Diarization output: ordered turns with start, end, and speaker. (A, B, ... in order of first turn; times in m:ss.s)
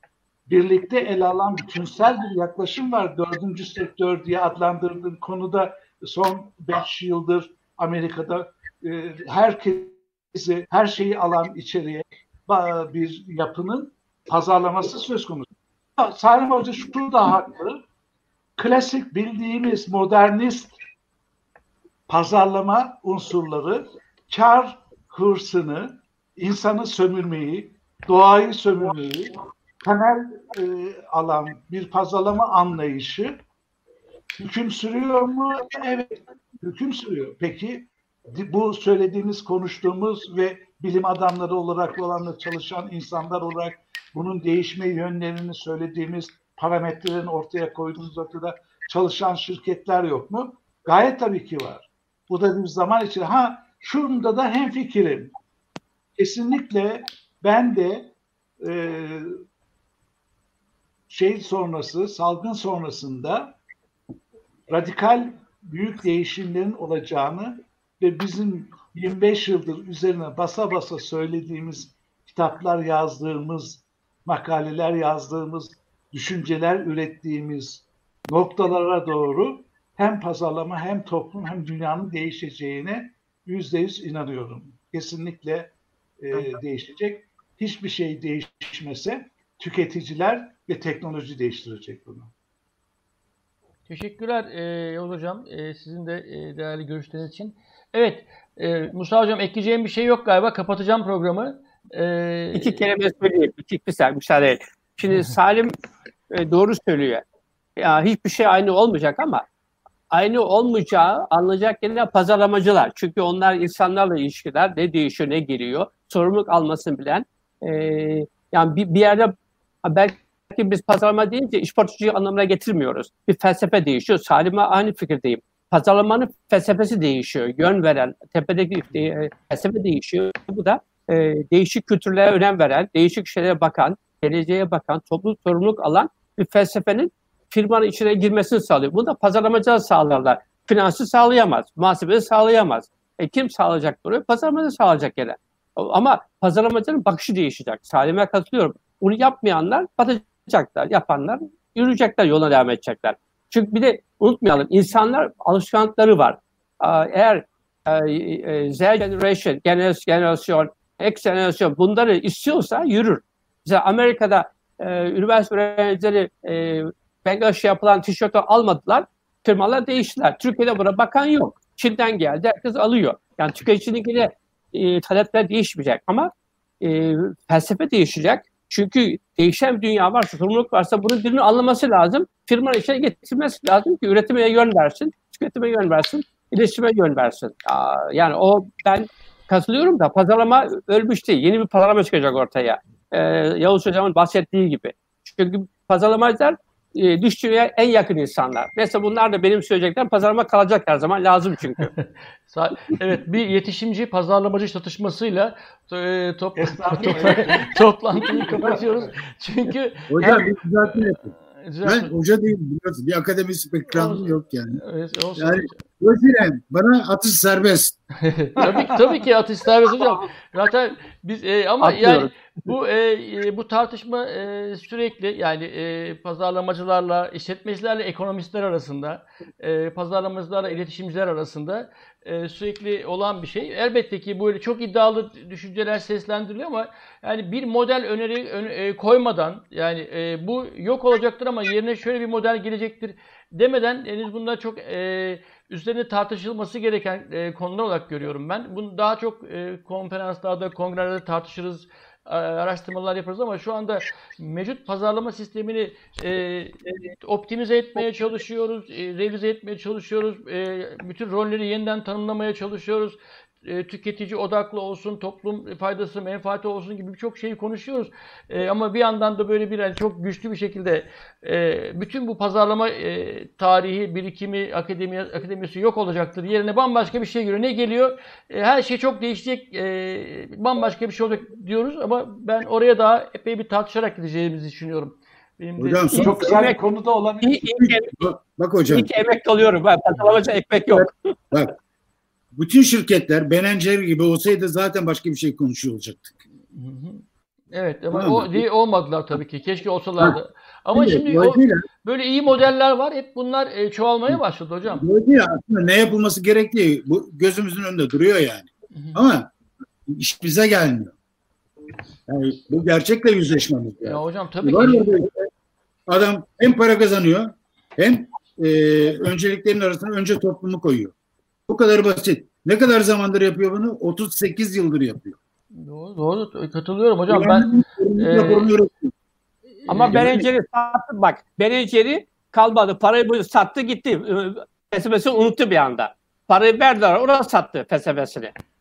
0:00.5-0:17.8 A
0:18.6-0:20.8 A
0:22.1-0:33.4 A
0:34.4-0:55.3 A
0:56.2-0:59.3 A
1:01.1-1:03.6 A
1:04.7-1:32.3 A
1:33.9-1:42.8 B
1:42.6-1:45.7 C
1:46.3-1:47.2 C
1:47.8-1:49.4 C
1:50.1-1:59.3 C
1:59.8-3:21.9 C
3:22.0-3:32.1 B
3:26.6-3:28.9 A
3:30.1-3:31.3 D
3:31.8-3:34.8 D
3:33.9-3:35.8 B
3:35.4-3:38.0 D
3:38.2-4:46.2 B
3:38.6-3:38.9 A
3:41.8-3:42.4 C
4:45.8-4:46.6 D
4:46.1-4:46.8 C
4:46.2-4:47.6 A
4:47.4-4:48.2 C
4:47.7-4:49.1 D
4:48.9-4:51.2 C
4:50.9-4:51.7 D
4:52.5-4:56.4 D
4:56.7-5:05.0 B
4:58.1-4:58.6 D
5:00.9-5:01.8 D
5:04.3-5:09.5 D
5:08.9-5:09.2 B
5:10.1-5:11.1 D
5:12.3-5:15.5 D
5:14.0-5:15.2 B
5:16.1-5:21.1 D
5:21.7-5:25.4 D
5:25.8-5:28.7 B
5:27.3-5:29.1 D
5:29.8-5:30.3 B
5:29.9-5:38.6 C
5:30.0-5:30.4 D